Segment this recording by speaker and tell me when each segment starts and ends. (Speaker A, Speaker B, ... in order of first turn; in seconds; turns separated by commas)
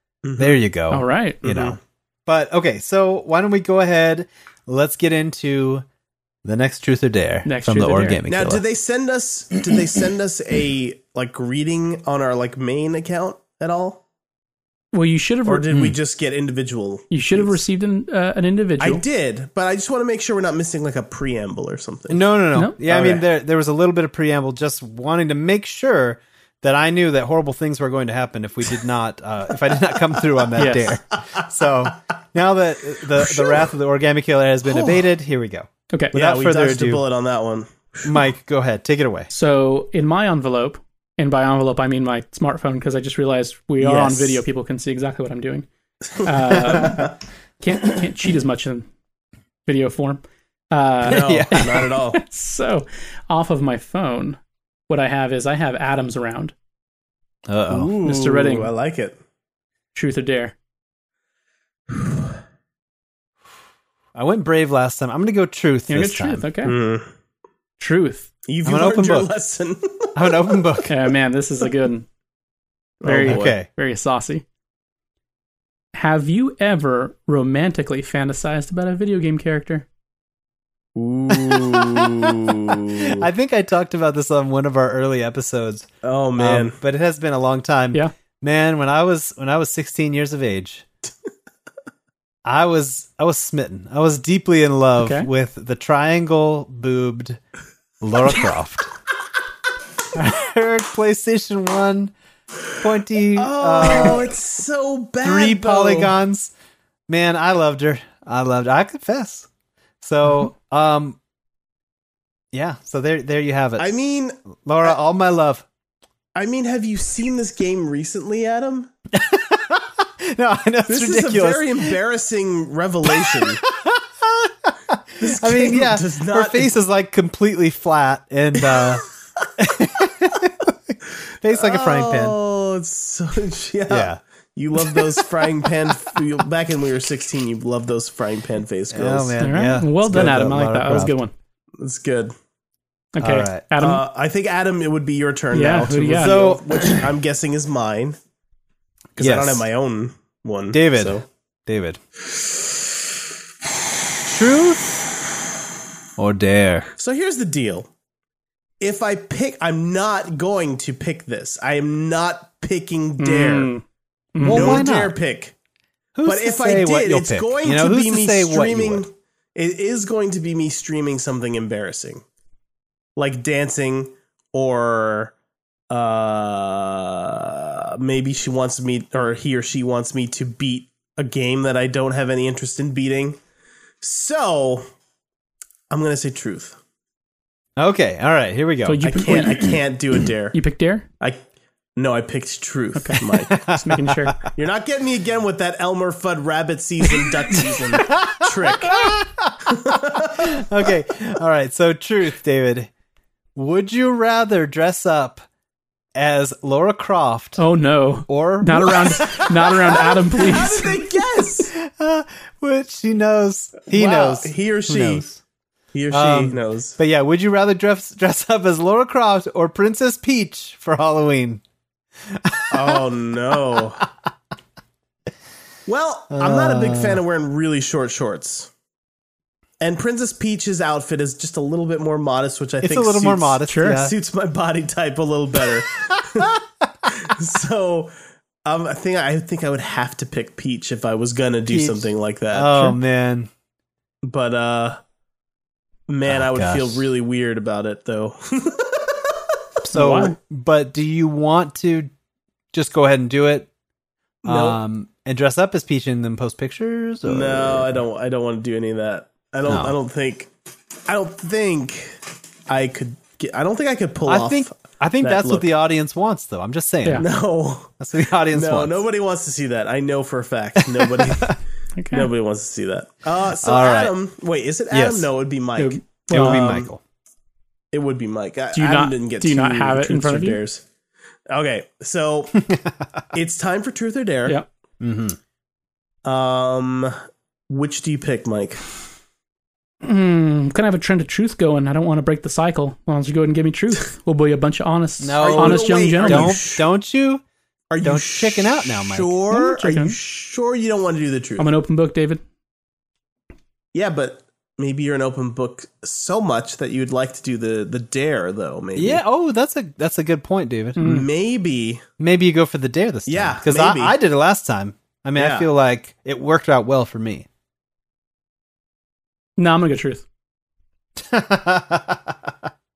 Speaker A: 0.2-0.6, Speaker B: 0.4-5.8, Speaker C: 0.9-1.4, Speaker A: 1.4-1.8, Speaker B: 6.4-8.6, Speaker C: 7.4-8.2, Speaker A: 8.3-14.0, Speaker C: 14.9-15.8, Speaker A: 15.4-17.6, Speaker C: 17.1-19.0, Speaker A: 18.8-22.2, Speaker B: 22.1-37.0, Speaker A: 22.9-23.2, Speaker C: 30.6-30.9, Speaker A: 34.6-35.0, Speaker C: 35.9-36.1, Speaker A: 36.1-38.2, Speaker B: 38.0-39.3, Speaker C: 39.3-45.7, Speaker A: 43.8-44.4, Speaker A: 46.2-47.1, Speaker C: 46.2-48.9, Speaker C: 49.6-54.4, Speaker A: 51.0-52.2, Speaker B: 51.1-51.8, Speaker C: 54.9-56.5, Speaker B: 57.5-57.9, Speaker A: 57.7-59.2, Speaker C: 58.0-58.7, Speaker C: 59.9-60.5, Speaker B: 64.1-66.5, Speaker C: 65.9-66.8, Speaker A: 66.6-67.1, Speaker C: 67.8-68.3, Speaker A: 68.5-70.7, Speaker B: 68.6-69.3, Speaker B: 70.1-70.9, Speaker C: 70.9-72.0, Speaker A: 73.0-73.5, Speaker C: 73.0-74.4, Speaker B: 73.2-73.7, Speaker C: 75.9-79.8, Speaker A: 81.0-83.3, Speaker B: 81.3-82.2, Speaker B: 82.8-90.8, Speaker A: 86.0-86.8, Speaker B: 92.4-97.4, Speaker C: 95.0-95.3, Speaker B: 98.0-98.9, Speaker B: 100.1-102.1, Speaker B: 102.7-104.3, Speaker A: 103.3-106.2, Speaker B: 105.2-106.5, Speaker B: 107.1-109.5, Speaker B: 110.0-111.2, Speaker B: 112.5-114.0, Speaker A: 113.8-114.9, Speaker B: 114.6-115.6, Speaker A: 116.3-118.9, Speaker B: 119.1-121.9, Speaker A: 120.9-123.6, Speaker B: 123.7-129.0, Speaker A: 125.2-126.7, Speaker A: 128.6-129.0, Speaker B: 129.6-132.4, Speaker A: 131.5-139.3, Speaker B: 133.9-134.2, Speaker B: 138.9-141.2, Speaker C: 139.4-141.3, Speaker A: 141.8-142.3, Speaker C: 143.2-144.0, Speaker B: 143.2-143.6, Speaker A: 143.8-148.2, Speaker C: 145.5-146.4, Speaker B: 146.2-147.0, Speaker B: 149.2-149.6, Speaker A: 149.2-151.2, Speaker B: 150.7-152.0, Speaker B: 154.2-154.9, Speaker B: 156.2-156.9, Speaker A: 157.0-157.9, Speaker A: 158.8-163.7, Speaker C: 163.2-163.8, Speaker C: 164.3-164.8, Speaker B: 164.4-165.1, Speaker A: 164.4-165.5, Speaker B: 166.1-169.0, Speaker A: 166.2-172.2, Speaker A: 173.2-175.3, Speaker A: 175.9-183.4, Speaker A: 184.0-184.9, Speaker A: 185.9-186.8, Speaker B: 187.8-189.4, Speaker C: 188.8-189.8, Speaker A: 189.0-190.6, Speaker C: 190.5-191.1, Speaker A: 191.9-193.6, Speaker C: 192.9-194.4, Speaker B: 193.5-194.4, Speaker A: 194.5-199.1, Speaker B: 198.2-199.6, Speaker A: 199.7-200.6, Speaker B: 200.3-202.9, Speaker B: 203.5-205.4, Speaker B: 206.2-207.6, Speaker C: 207.6-211.0, Speaker B: 208.3-210.1, Speaker A: 209.9-211.7, Speaker B: 211.7-215.4, Speaker A: 213.9-215.3, Speaker A: 215.9-217.0, Speaker B: 216.1-221.6, Speaker B: 222.3-223.0, Speaker A: 222.7-224.0, Speaker A: 225.8-228.7, Speaker B: 226.3-227.2, Speaker A: 229.8-238.1, Speaker B: 232.8-234.1, Speaker C: 233.7-234.0, Speaker A: 238.6-243.0, Speaker B: 241.7-243.5, Speaker A: 244.2-245.0, Speaker A: 246.1-249.6, Speaker B: 246.2-247.1, Speaker C: 249.8-250.3, Speaker B: 249.9-252.1, Speaker B: 252.7-253.7, Speaker A: 254.4-254.8, Speaker B: 254.4-258.0, Speaker A: 257.2-260.5, Speaker B: 259.6-259.9, Speaker A: 261.1-265.7, Speaker B: 264.2-267.3, Speaker A: 267.1-267.9, Speaker B: 268.0-269.0, Speaker A: 268.5-271.6, Speaker B: 270.8-271.6, Speaker C: 271.9-272.3, Speaker A: 272.1-276.9, Speaker B: 273.6-274.1, Speaker B: 274.9-275.3, Speaker C: 275.8-276.8, Speaker B: 276.3-277.0, Speaker A: 277.9-280.8, Speaker C: 278.7-280.6, Speaker A: 281.5-282.6, Speaker B: 282.6-283.2, Speaker A: 283.3-284.6, Speaker B: 285.0-285.4, Speaker A: 286.2-287.1, Speaker A: 287.7-288.8, Speaker C: 290.0-296.6, Speaker B: 295.2-297.4, Speaker A: 295.4-296.8, Speaker A: 297.9-301.7, Speaker B: 298.0-299.4, Speaker C: 299.5-300.2, Speaker C: 301.6-302.4, Speaker A: 303.9-309.2, Speaker B: 308.9-311.0, Speaker C: 311.0-311.3, Speaker A: 311.0-312.0, Speaker B: 312.2-317.5, Speaker A: 313.2-314.2, Speaker A: 315.4-315.7, Speaker C: 319.6-320.2, Speaker B: 321.2-322.5